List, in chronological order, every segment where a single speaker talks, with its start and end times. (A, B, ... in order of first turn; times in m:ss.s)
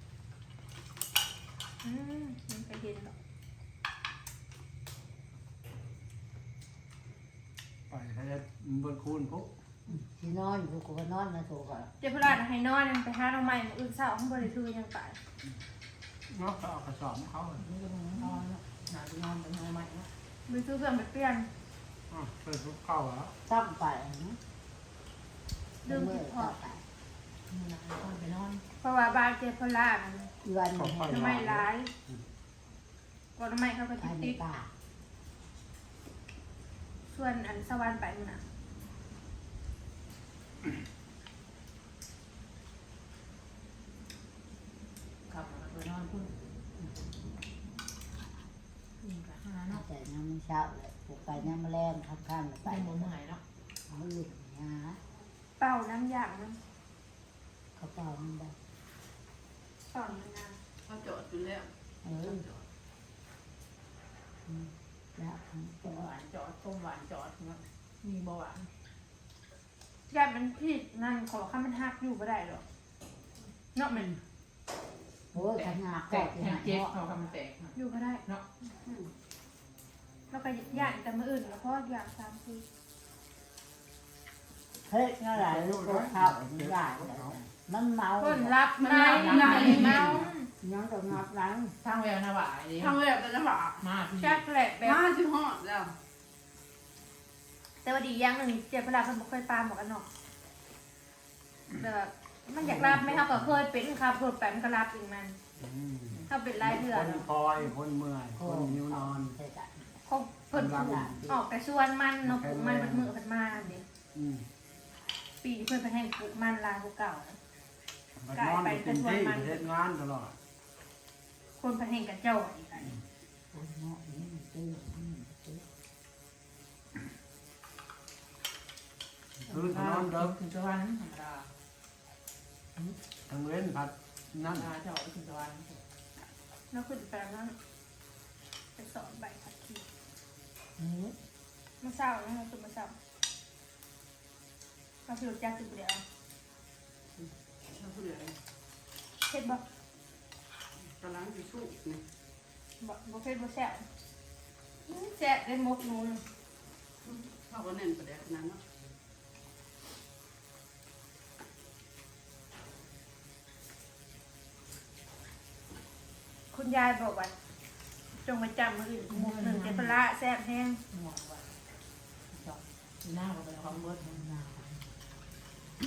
0:01.8-0:03.2 A
0:07.9-0:09.5 B
0:09.9-0:11.9 C
0:12.0-0:15.2 A
0:16.3-0:17.6 B
0:17.6-0:20.1 D
0:20.5-0:21.5 A
0:22.1-0:23.4 B
0:23.5-0:24.4 C
0:25.8-0:26.6 A
0:25.8-0:26.8 C
0:27.5-0:28.6 D
0:28.8-0:30.3 A
0:30.4-0:31.6 C
0:30.8-0:32.2 B
0:31.1-0:31.9 A
0:33.4-0:34.4 A
0:34.0-0:34.7 C
0:37.1-0:38.4 A
0:45.3-0:46.3 D
0:49.0-0:49.8 D
0:49.7-0:53.1 C
0:52.7-0:53.4 D
0:53.9-0:55.0 C
0:55.6-0:56.6 A
0:57.8-0:58.6 C
0:59.9-1:00.6 A
1:00.9-1:02.6 E
1:02.0-1:02.5 C
1:04.5-1:06.1 C
1:05.8-1:08.7 D
1:10.1-1:12.6 A
1:13.7-1:14.1 A
1:15.3-1:17.0 C
1:15.4-1:18.5 D
1:17.7-1:18.2 A
1:18.8-1:19.1 E
1:20.3-1:22.6 A
1:24.8-1:28.6 C
1:25.3-1:27.4 B
1:28.2-1:30.5 A
1:28.8-1:30.2 E
1:29.1-1:29.9 D
1:29.8-1:31.8 C
1:31.8-1:33.0 D
1:32.8-1:33.9 E
1:33.8-1:34.4 D
1:34.2-1:35.0 A
1:34.8-1:35.9 E
1:37.8-1:40.1 A
1:41.7-1:45.4 A
1:42.6-1:43.6 B
1:45.6-1:49.4 B
1:46.3-1:47.3 A
1:48.3-1:50.0 C
1:50.0-1:53.8 A
1:50.5-1:51.2 B
1:50.6-1:51.4 C
1:52.2-1:53.1 B
1:54.1-1:54.4 B
1:55.4-1:57.4 A
1:58.2-2:00.4 B
1:58.3-1:59.7 A
2:01.6-2:03.0 A
2:03.5-2:05.6 C
2:09.4-2:10.4 B
2:09.5-2:11.5 D
2:13.3-2:14.7 B
2:14.5-2:15.8 D
2:16.7-2:17.6 A
2:18.8-2:19.8 A
2:20.8-2:21.2 C
2:21.8-2:23.0 A
2:25.1-2:26.0 A
2:27.2-2:28.4 E
2:29.3-2:29.6 A
2:31.0-2:32.0 E
2:32.8-2:33.9 A
2:34.9-2:36.2 A
2:37.0-2:38.6 E
2:46.5-2:47.3 A
2:48.2-2:50.8 A
2:49.1-2:50.0 D
2:50.9-2:51.6 D
2:52.3-2:54.1 D
2:53.9-2:54.9 C